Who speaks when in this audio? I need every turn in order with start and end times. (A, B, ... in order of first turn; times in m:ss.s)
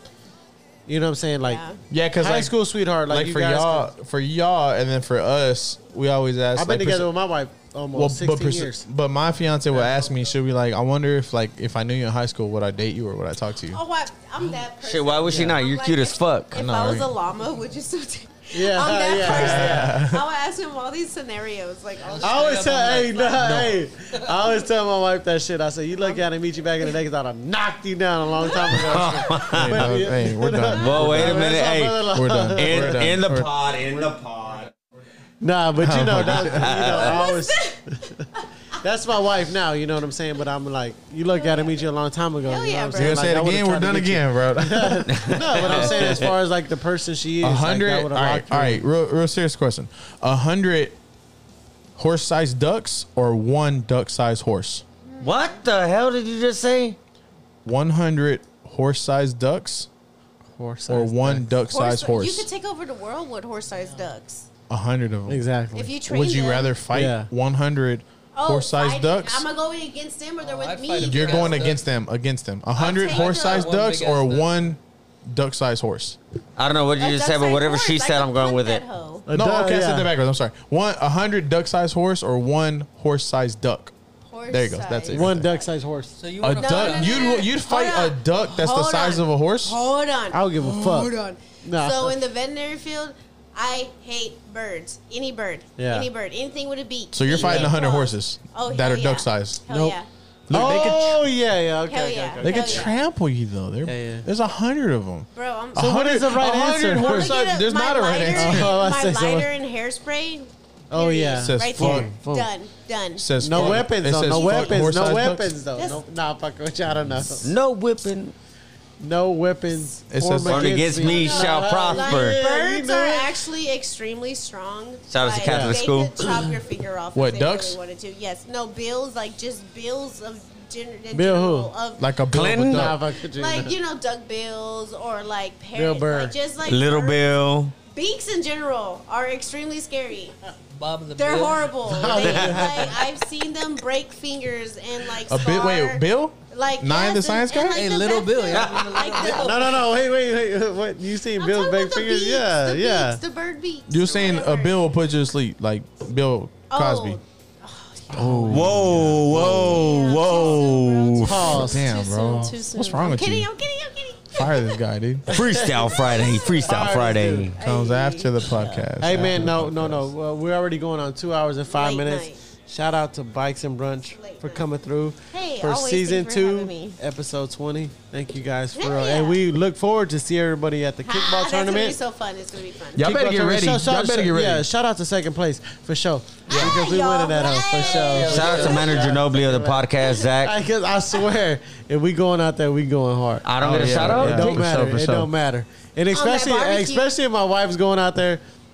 0:00.9-0:01.6 A
0:01.4-0:01.8 B
0:01.9-0:07.1 C
0:02.2-0:03.9 A
0:06.5-0:08.9 A
0:07.9-0:13.8 C
0:09.7-0:10.3 D
0:13.7-0:22.5 B
0:14.8-0:16.6 E
0:15.3-0:15.5 A
0:16.5-0:17.1 C
0:18.5-0:20.0 A
0:19.2-0:20.2 C
0:22.0-0:23.7 D
0:22.2-0:33.2 A
0:28.4-0:28.9 B
0:28.7-0:30.0 E
0:29.5-0:31.5 C
0:30.7-0:31.3 B
0:30.7-0:34.7 E
0:32.1-0:33.5 C
0:35.4-0:38.2 A
0:35.8-0:36.8 C
0:36.2-0:37.3 E
0:36.9-0:37.8 B
0:38.8-0:48.8 A
0:41.4-0:41.8 B
0:42.4-0:43.3 B
0:43.0-0:45.3 C
0:45.1-0:46.3 E
0:47.4-0:51.0 C
0:52.0-0:54.8 C
0:55.1-0:55.6 B
0:55.2-0:57.0 E
0:57.6-0:59.9 C
1:00.5-1:01.5 A
1:00.9-1:02.5 C
1:01.7-1:04.5 B
1:03.7-1:04.1 D
1:04.7-1:05.4 C
1:05.3-1:05.9 A
1:05.8-1:06.8 B
1:06.0-1:09.5 C
1:06.9-1:07.3 A
1:08.4-1:11.7 B
1:10.4-1:11.9 D
1:11.0-1:16.2 C
1:12.8-1:13.7 B
1:12.8-1:14.8 D
1:16.6-1:18.8 E
1:17.0-1:19.3 B
1:19.3-1:20.1 A
1:19.3-1:23.9 C
1:24.3-1:25.7 B
1:24.5-1:25.5 C
1:25.1-1:26.2 A
1:26.2-1:27.4 D
1:26.4-1:29.8 C
1:26.6-1:40.9 B
1:30.3-1:31.1 A
1:31.6-1:32.2 A
1:35.8-1:36.1 A
1:37.1-1:40.0 C
1:37.3-1:37.8 A
1:40.5-1:41.2 C
1:40.5-1:43.0 A
1:41.9-1:43.0 B
1:42.4-1:48.7 C
1:43.8-1:44.3 A
1:45.3-1:46.1 B
1:45.8-1:47.4 A
1:46.9-1:55.0 B
1:48.3-1:49.5 A
1:50.9-1:52.5 A
1:51.4-1:52.1 C
1:53.2-1:55.5 C
1:53.4-1:57.5 A
1:55.8-1:56.0 B
1:57.4-1:58.3 E
1:59.0-2:03.4 A
2:00.1-2:00.9 C
2:00.4-2:02.4 E
2:01.0-2:12.1 B
2:05.1-2:06.2 E
2:05.4-2:05.8 A
2:06.2-2:06.6 C
2:07.2-2:07.8 C
2:11.1-2:11.7 A
2:12.0-2:13.0 C
2:12.3-2:12.9 E
2:12.5-2:13.8 A
2:13.3-2:17.2 B
2:15.7-2:16.4 A
2:16.6-2:17.7 E
2:17.8-2:20.4 B
2:20.7-2:22.1 D
2:21.2-2:29.8 B
2:21.9-2:23.0 A
2:22.1-2:22.7 E
2:25.3-2:27.8 C
2:27.7-2:29.9 D
2:28.5-2:29.1 E
2:29.2-2:33.2 A
2:31.4-2:34.8 B
2:33.9-2:37.2 C
2:36.7-2:38.4 B
2:38.1-2:39.8 A
2:38.1-2:39.8 C
2:38.5-2:41.6 E
2:39.5-2:44.8 B
2:41.2-2:41.9 A
2:41.4-2:43.5 C
2:44.3-2:45.4 C
2:45.3-2:47.6 E
2:45.3-2:47.5 A
2:46.0-2:46.7 B
2:47.6-2:48.9 B
2:47.6-2:50.1 C
2:49.0-3:02.0 A
2:51.7-2:52.4 B
2:54.1-2:54.7 B
2:55.3-2:57.0 B
2:58.8-2:59.4 B
3:01.0-3:03.1 B
3:03.0-3:04.6 C
3:03.0-3:18.4 A
3:06.5-3:09.0 B
3:06.5-3:06.8 C
3:07.8-3:09.1 D
3:08.2-3:10.6 E
3:13.4-3:14.6 E
3:13.6-3:15.3 C
3:16.1-3:17.1 B